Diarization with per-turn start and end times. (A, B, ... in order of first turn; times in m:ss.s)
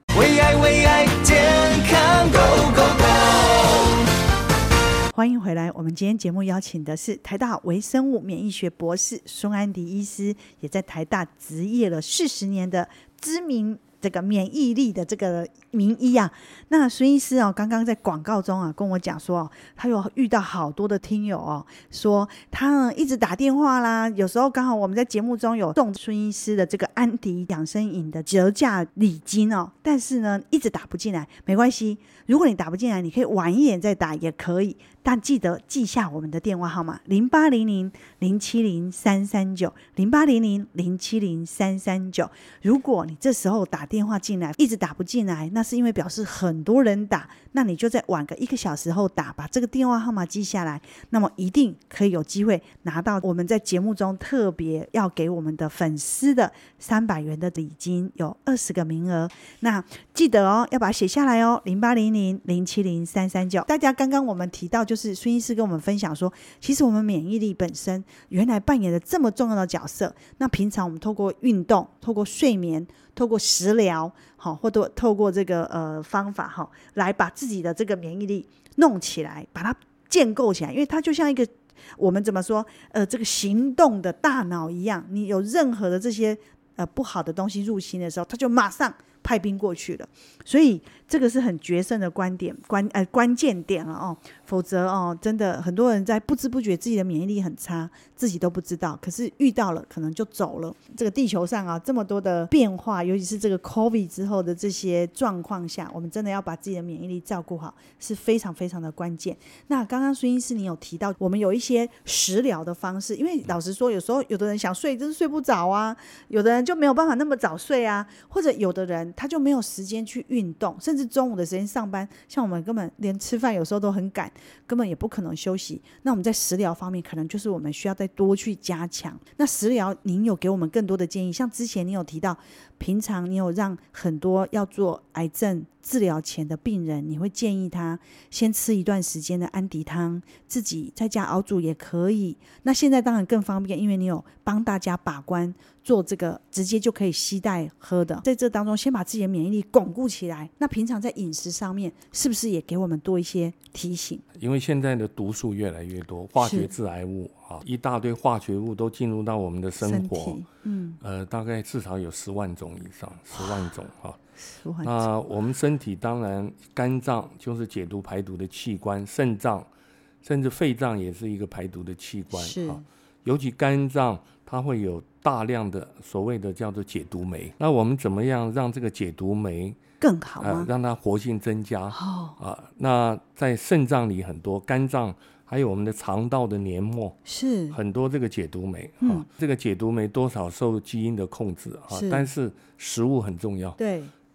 0:00.1-0:04.1 A
0:05.1-2:34.2 B
2:34.4-2:40.4 C
2:36.4-2:36.7 B
2:39.8-2:41.0 B
2:41.0-2:44.2 C
2:44.4-2:45.1 B
2:44.8-2:49.7 C
2:50.2-2:59.8 C
2:52.3-2:52.8 B
3:00.0-3:00.7 B
3:00.4-3:07.2 C
3:01.9-3:02.4 B
3:07.2-3:07.8 B
3:07.7-3:13.8 C
3:09.0-3:09.3 B
3:11.9-3:12.3 B
3:13.8-3:14.1 B